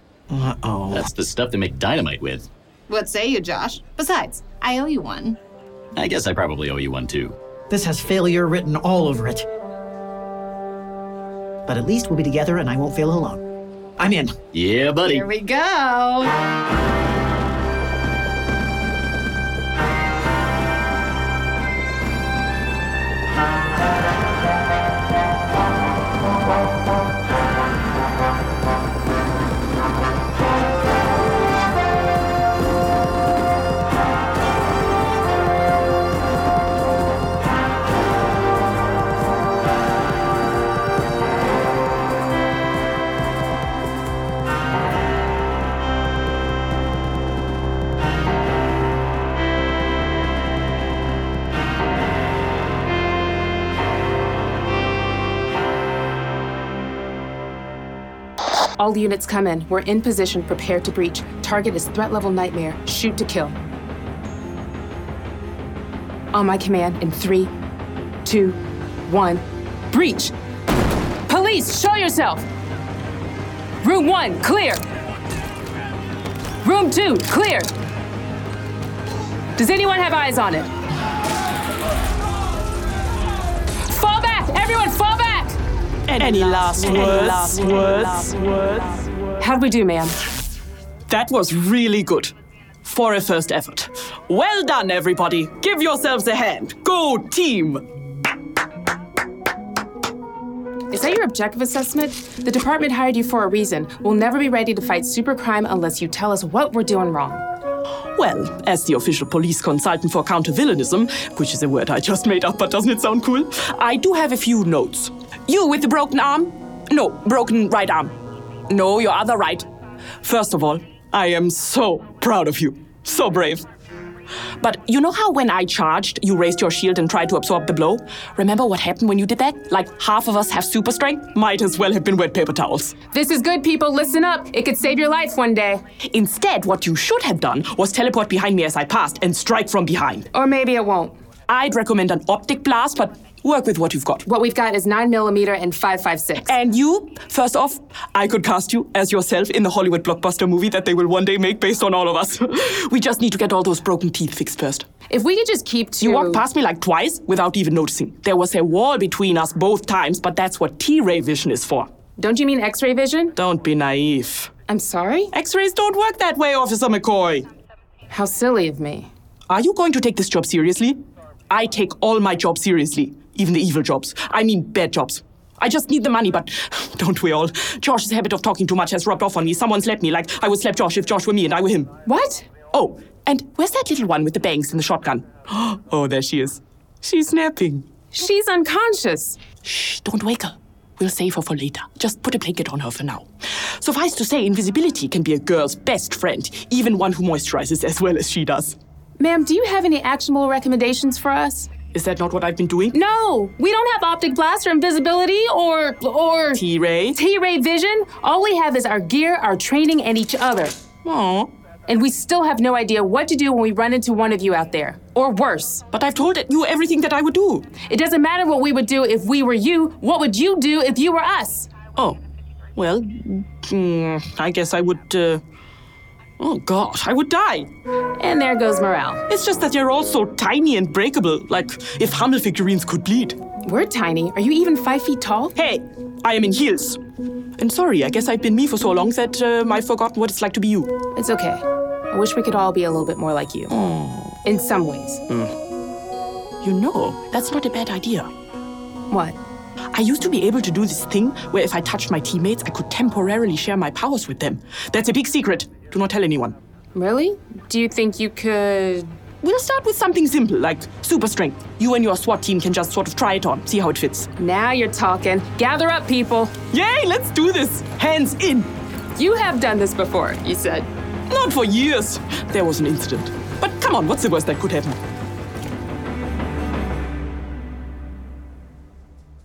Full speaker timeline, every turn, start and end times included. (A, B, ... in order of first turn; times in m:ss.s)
0:00.3-0:01.1 A
0:00.9-0:02.5 B
0:02.9-0:05.4 C
0:05.9-0:07.4 B
0:07.7-0:09.5 A
0:11.6-0:13.4 A
0:14.0-0:14.3 A
0:14.5-0:15.3 B
0:15.0-0:16.4 C
0:58.8-1:03.6 D
1:06.3-1:07.5 D
1:08.2-1:10.3 D
1:11.3-1:12.4 D
1:13.8-1:14.8 D
1:16.6-1:17.7 D
1:19.6-1:20.7 D
1:23.8-1:25.6 D
1:26.1-1:29.0 E
1:26.2-1:28.3 D
1:29.4-1:30.2 D
1:31.1-1:32.3 E
1:32.8-1:37.9 E
1:40.9-1:47.4 D
1:48.1-1:59.7 E
2:00.2-2:03.6 E
2:04.6-2:13.0 E
2:13.1-2:15.8 D
2:16.0-2:20.3 E
2:20.3-2:21.2 D
2:21.5-2:24.2 E
2:24.3-2:26.5 D
2:26.4-2:34.9 E
2:35.1-2:36.4 D
2:36.0-2:41.9 E
2:42.2-2:43.4 D
2:43.4-2:44.5 E
2:44.7-2:45.3 D
2:45.3-2:47.5 E
2:48.1-2:49.1 D
2:49.5-3:01.9 E
3:02.0-3:02.5 D
3:02.7-3:07.9 E
3:08.1-3:09.4 D
3:09.6-3:18.8 E
3:19.2-3:21.7 D
3:21.9-3:22.9 E
3:22.9-3:30.8 D
3:26.5-3:27.2 E
3:31.0-3:31.5 E
3:31.9-3:35.9 D
3:35.9-3:37.7 E
3:37.8-3:41.7 D
3:42.0-3:42.2 E
3:42.8-3:45.4 E
3:46.4-3:47.7 E
3:48.2-3:49.2 D
3:49.3-3:53.4 E
3:53.6-3:55.5 D
3:55.5-3:57.0 E
3:57.6-4:00.9 E
4:01.1-4:03.7 D
4:03.7-4:04.4 E
4:04.4-4:05.2 D
4:05.3-4:05.5 E
4:06.6-4:08.3 E
4:09.1-4:09.4 D
4:09.9-4:16.6 E
4:16.9-4:19.1 D
4:19.4-4:24.3 E
4:24.4-4:26.6 D
4:26.7-4:28.7 E
4:29.2-4:30.9 D
4:31.3-4:35.0 E